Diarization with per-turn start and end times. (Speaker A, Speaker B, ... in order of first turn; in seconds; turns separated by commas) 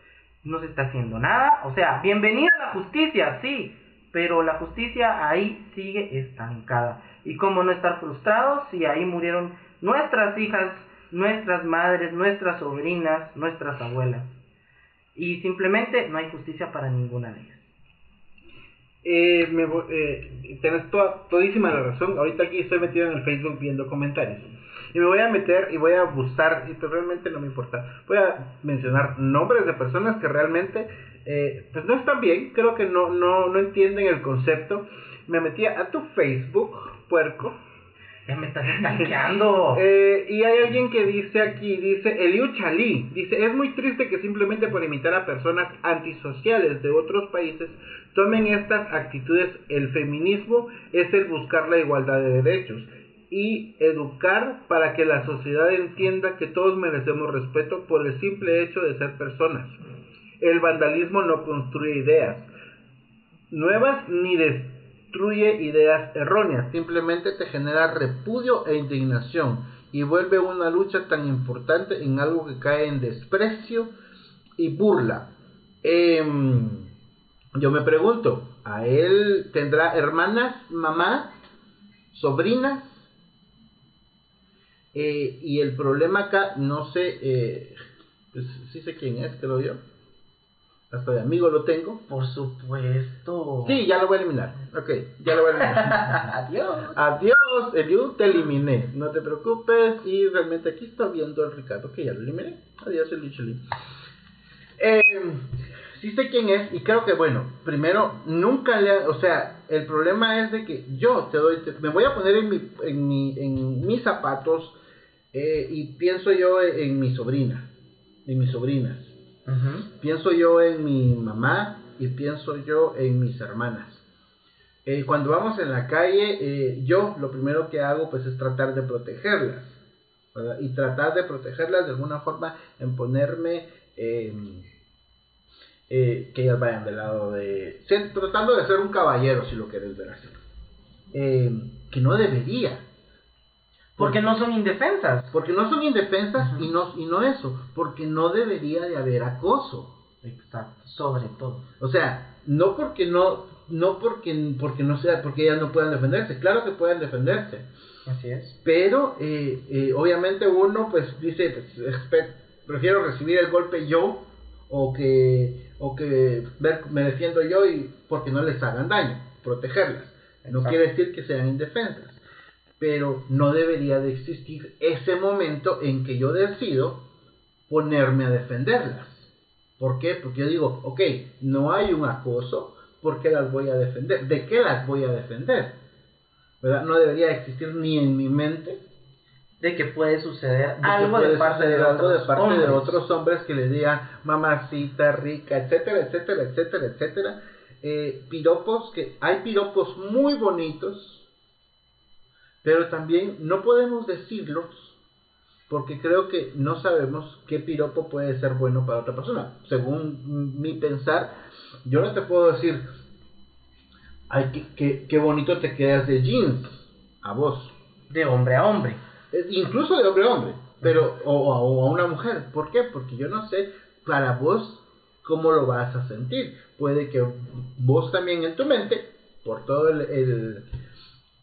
Speaker A: 0.4-14.4, Speaker A: 15.1-17.7, Speaker B: 19.0-37.6, Speaker A: 38.3-39.8, Speaker B: 39.7-59.8, Speaker B: 60.4-62.5, Speaker B: 63.5-73.9, Speaker B: 74.6-76.9, Speaker B: 77.5-81.3, Speaker B: 82.1-83.1, Speaker B: 84.9-87.7, Speaker B: 88.3-89.8, Speaker B: 90.9-92.0, Speaker A: 92.1-93.8, Speaker B: 93.6-96.3, Speaker A: 95.6-97.0, Speaker B: 96.9-103.6, Speaker B: 104.8-114.8, Speaker B: 115.3-117.7, Speaker B: 118.2-119.2, Speaker A: 119.5-119.9, Speaker B: 119.9-124.0, Speaker B: 124.8-129.8, Speaker B: 130.3-134.7, Speaker B: 135.9-140.4, Speaker B: 141.1-142.8, Speaker A: 144.0-145.3, Speaker B: 145.3-149.9, Speaker A: 146.4-146.6, Speaker A: 150.2-151.7, Speaker B: 151.8-157.7, Speaker A: 158.1-158.6, Speaker B: 158.6-172.2, Speaker B: 172.8-177.0, Speaker B: 177.7-185.8, Speaker B: 186.6-188.8, Speaker A: 189.6-193.0, Speaker B: 190.8-201.3, Speaker B: 202.6-205.0, Speaker B: 205.7-212.8, Speaker B: 214.3-217.7, Speaker A: 218.1-219.0, Speaker B: 219.3-230.7